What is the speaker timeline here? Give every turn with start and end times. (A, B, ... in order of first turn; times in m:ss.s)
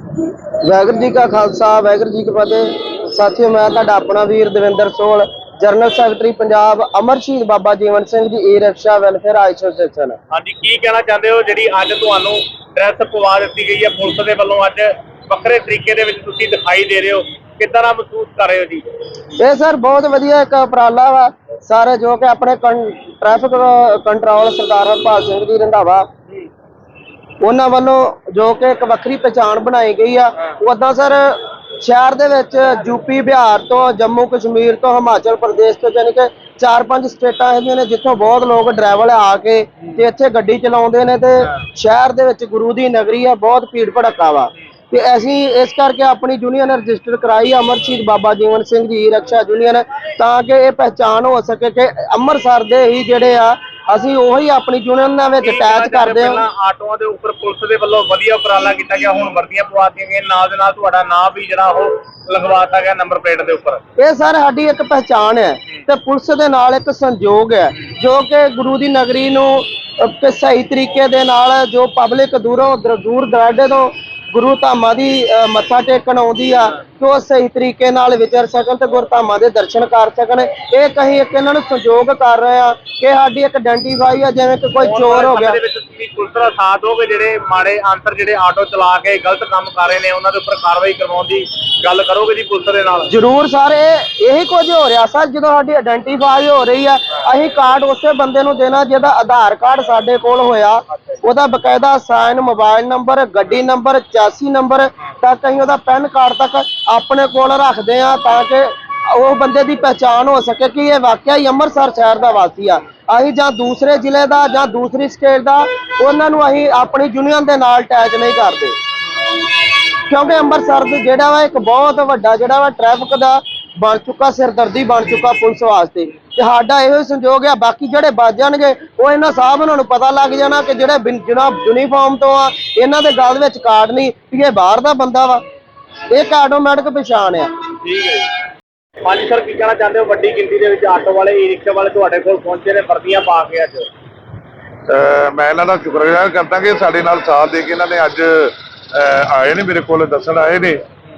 0:00.6-0:10.2 A
0:10.3-0:18.9 B
0:19.4-0:26.1 A
0:27.4-0:56.4 A
0:55.4-1:03.8 B
1:04.0-1:25.6 A
1:24.8-1:33.1 B
1:33.1-1:58.8 A
2:00.1-2:15.4 A
2:16.1-2:17.5 A
2:17.8-2:18.3 B
2:19.0-2:23.9 B
2:24.9-2:30.8 C